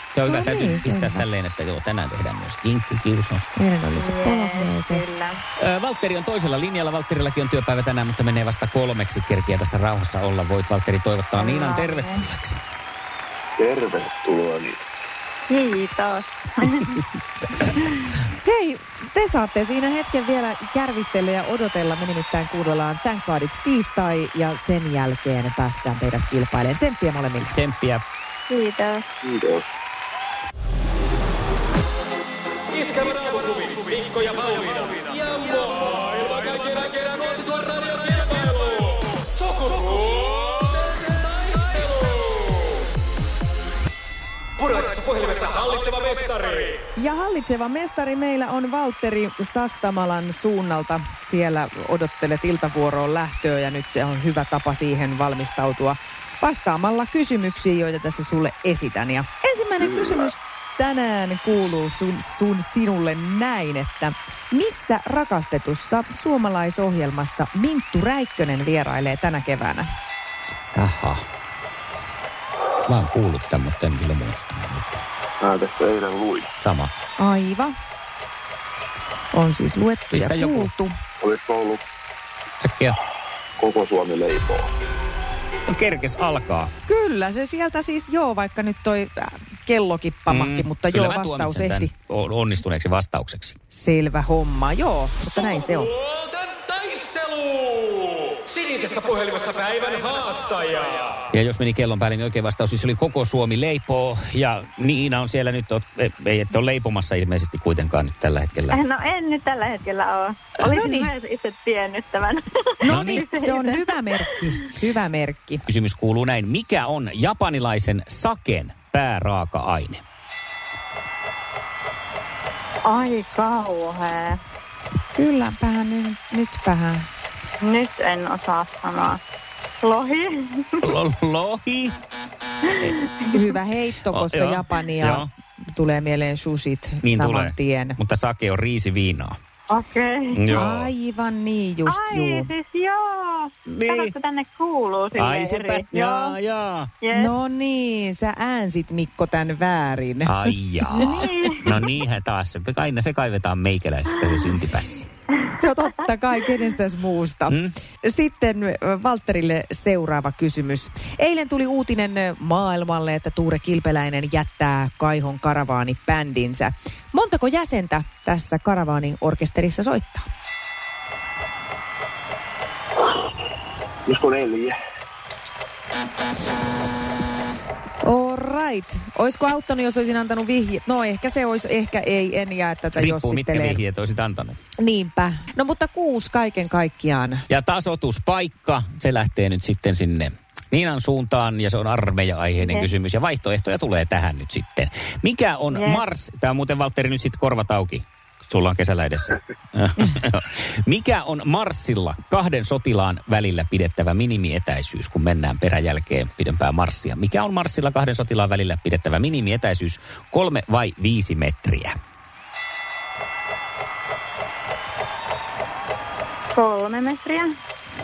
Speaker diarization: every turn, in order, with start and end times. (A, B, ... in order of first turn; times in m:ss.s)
0:00.1-0:03.5 A
0:00.3-0:01.2 B
0:03.6-0:05.0 B
0:04.0-0:05.4 C
0:05.6-0:12.6 A
0:11.4-0:12.2 C
0:13.6-0:14.8 D
0:15.5-0:17.0 C
0:18.4-0:27.6 B
0:27.5-0:28.0 A
0:28.5-0:29.0 C
0:29.2-0:29.7 D
0:32.9-0:42.3 E
0:44.6-0:46.8 E
0:47.0-1:09.9 B
0:59.8-1:00.3 D
1:10.7-1:11.2 A
1:12.9-1:15.0 A
1:15.4-1:16.5 D
1:16.6-1:16.9 A
1:17.2-1:17.7 B
1:19.3-1:20.9 B
1:20.1-1:20.7 A
1:21.2-1:21.8 D
1:22.6-1:23.0 A
1:23.6-1:24.7 D
1:25.7-1:26.7 A
1:26.9-1:31.9 B
1:30.3-1:33.6 A
1:33.7-1:35.9 B
1:36.1-1:37.8 E
1:38.5-1:41.2 E
1:41.3-1:48.8 A
1:48.7-1:53.9 C
1:50.6-1:51.1 B
1:52.8-1:55.6 B
1:52.9-1:53.2 A
1:55.7-2:00.0 A
2:02.8-2:04.4 C
2:05.2-2:07.1 B
2:07.6-2:09.2 C
2:09.8-2:10.7 C
2:10.8-2:11.9 A
2:12.9-2:13.4 C
2:13.3-2:18.0 B
2:14.1-2:15.3 A
2:17.0-2:19.4 A
2:19.7-2:20.4 C
2:20.3-2:20.9 A
2:20.5-2:22.5 B
2:21.9-2:26.4 C
2:23.7-2:24.1 A
2:25.2-2:26.9 A
2:27.0-2:27.3 C
2:27.1-2:31.4 B
2:30.3-2:35.1 A
2:31.0-2:31.6 C
2:35.6-2:50.2 B
2:54.1-2:54.8 D
2:58.0-3:03.8 B
3:03.0-3:04.6 A
3:04.8-3:07.4 B
3:07.5-3:31.9 A
3:12.6-3:12.9 C
3:15.7-3:16.0 C
3:36.6-3:37.5 C